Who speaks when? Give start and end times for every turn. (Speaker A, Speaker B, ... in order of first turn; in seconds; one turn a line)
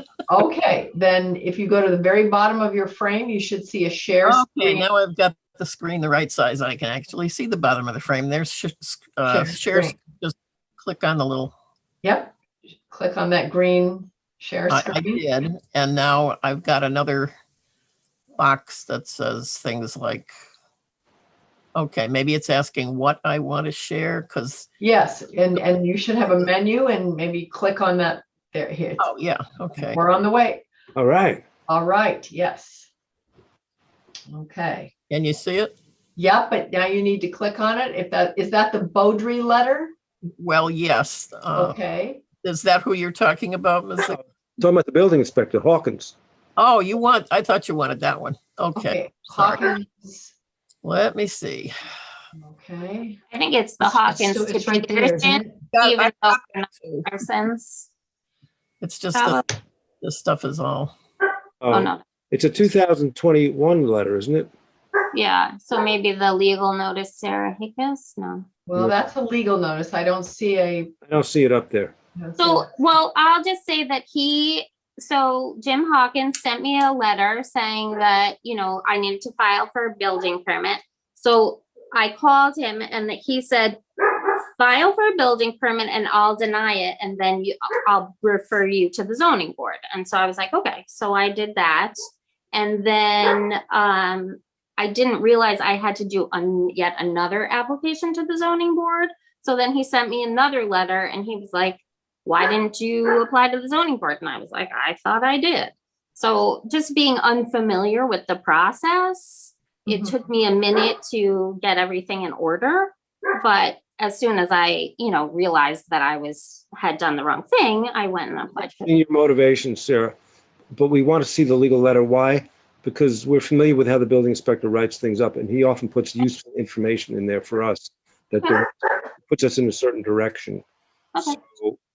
Speaker A: 0.3-4.9
Speaker B: 4.2-11.6
Speaker A: 9.3-10.0
Speaker A: 12.0-12.3
Speaker A: 12.9-15.2
Speaker B: 14.7-17.3
Speaker B: 18.4-20.3
Speaker B: 21.8-24.7
Speaker A: 24.8-29.1
Speaker B: 29.0-30.0
Speaker A: 29.9-30.6
Speaker C: 30.9-31.4
Speaker A: 31.7-32.9
Speaker A: 34.3-34.9
Speaker B: 35.1-35.8
Speaker A: 36.2-39.9
Speaker B: 40.4-41.8
Speaker A: 41.6-42.2
Speaker B: 42.4-44.2
Speaker C: 44.6-46.1
Speaker B: 46.6-49.7
Speaker A: 48.8-50.3
Speaker B: 50.8-51.7
Speaker A: 52.4-53.2
Speaker D: 53.3-57.9
Speaker A: 53.8-55.6
Speaker B: 55.7-57.0
Speaker B: 58.8-59.5
Speaker D: 59.1-59.4
Speaker B: 60.0-60.9
Speaker C: 61.6-64.5
Speaker D: 61.7-62.0
Speaker D: 65.1-68.5
Speaker A: 68.7-70.9
Speaker C: 71.1-71.9
Speaker A: 72.2-72.7
Speaker D: 72.4-92.0
Speaker D: 92.5-118.9
Speaker A: 109.9-110.2
Speaker C: 118.8-120.2
Speaker C: 120.7-128.7
Speaker C: 129.3-130.6
Speaker C: 131.2-131.8